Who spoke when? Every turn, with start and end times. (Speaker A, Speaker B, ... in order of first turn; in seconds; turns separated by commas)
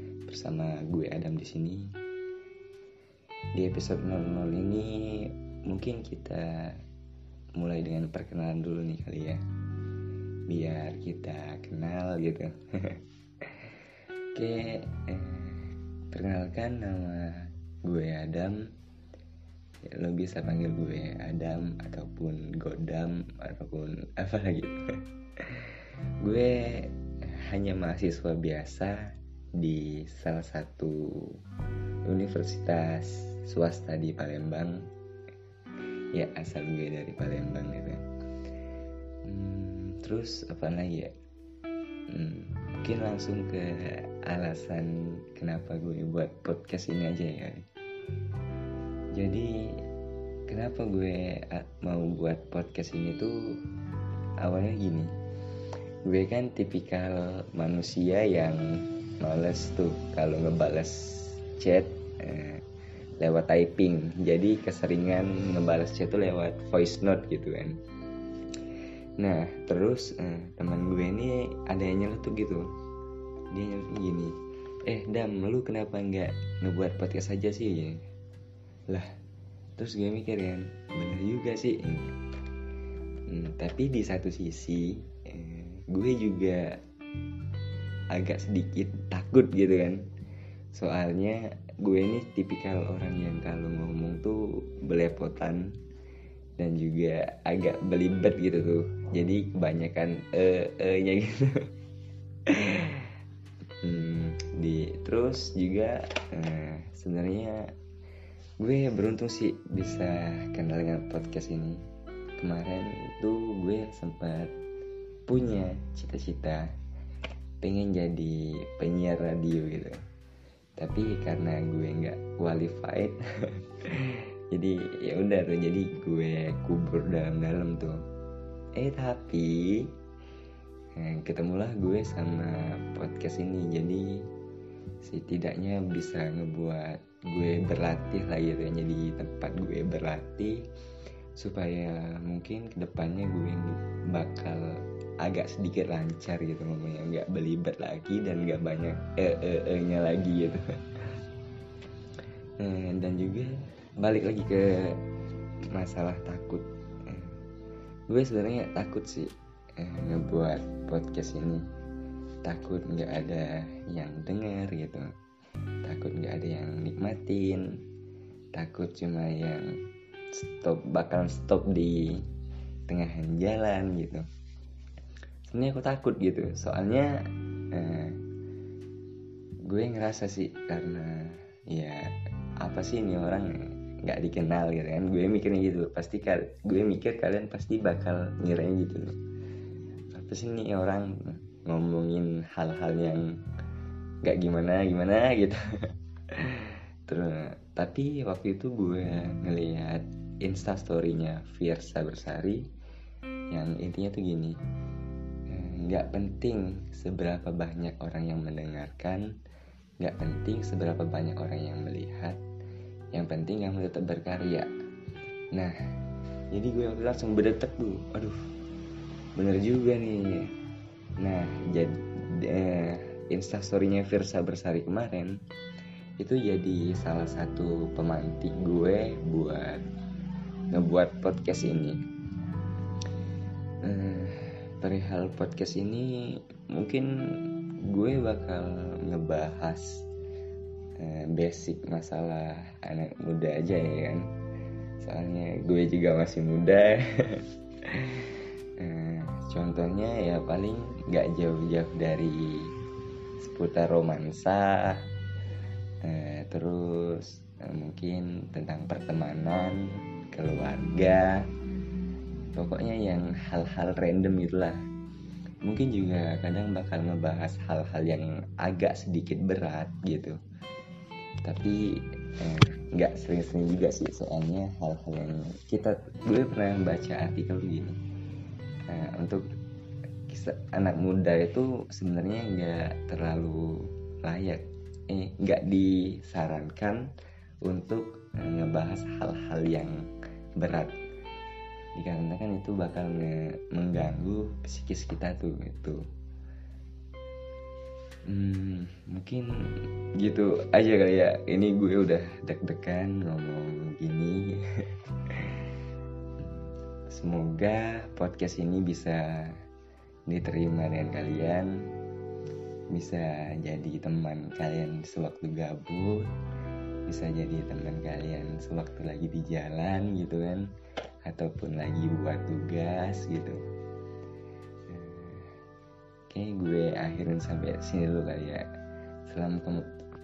Speaker A: 0.3-1.9, Speaker A: 3.5-6.8, Speaker A: 7.6-9.4, Speaker A: 10.5-13.7, Speaker A: 14.3-18.7, Speaker A: 19.9-29.0, Speaker A: 29.6-31.4, Speaker A: 32.1-34.9, Speaker A: 36.1-38.0, Speaker A: 39.2-41.1, Speaker A: 42.1-47.7, Speaker A: 49.1-49.8, Speaker A: 50.5-53.3, Speaker A: 54.4-55.1, Speaker A: 56.1-62.6, Speaker A: 63.2-67.8, Speaker A: 69.2-72.7, Speaker A: 73.5-78.0, Speaker A: 79.8-82.1, Speaker A: 83.3-86.8, Speaker A: 88.1-90.0, Speaker A: 90.8-95.8, Speaker A: 96.6-101.7, Speaker A: 102.5-103.2, Speaker A: 103.8-107.7, Speaker A: 108.6-111.8, Speaker A: 112.4-114.5, Speaker A: 115.3-116.7, Speaker A: 117.6-120.0, Speaker A: 120.8-128.0, Speaker A: 128.8-129.9, Speaker A: 131.0-134.2, Speaker A: 135.0-140.6, Speaker A: 141.4-144.7, Speaker A: 145.2-151.2, Speaker A: 152.6-155.0, Speaker A: 155.7-157.4, Speaker A: 158.1-161.6, Speaker A: 162.4-165.1, Speaker A: 165.8-167.7, Speaker A: 168.6-169.7, Speaker A: 170.3-172.2, Speaker A: 172.9-174.3, Speaker A: 175.5-177.1, Speaker A: 177.7-178.2, Speaker A: 179.7-182.1, Speaker A: 182.6-189.2, Speaker A: 190.1-193.2, Speaker A: 194.2-202.7, Speaker A: 203.5-204.6, Speaker A: 205.5-209.3, Speaker A: 210.0-212.4, Speaker A: 213.1-214.7, Speaker A: 216.5-218.4, Speaker A: 219.4-220.5, Speaker A: 221.2-225.4, Speaker A: 226.2-229.8, Speaker A: 230.7-232.0, Speaker A: 233.8-237.1, Speaker A: 237.9-240.1, Speaker A: 241.0-244.2, Speaker A: 245.0-252.7, Speaker A: 253.4-255.0, Speaker A: 256.0-261.4, Speaker A: 262.6-264.8, Speaker A: 265.6-270.4, Speaker A: 271.4-271.8, Speaker A: 272.3-278.0, Speaker A: 278.9-279.4, Speaker A: 280.3-287.1, Speaker A: 287.6-289.9, Speaker A: 290.6-291.0, Speaker A: 292.0-296.0, Speaker A: 298.3-305.7, Speaker A: 307.1-309.6, Speaker A: 310.3-311.8, Speaker A: 312.9-316.3, Speaker A: 317.1-320.7, Speaker A: 321.2-323.6, Speaker A: 324.9-325.5, Speaker A: 326.3-328.7, Speaker A: 329.3-329.9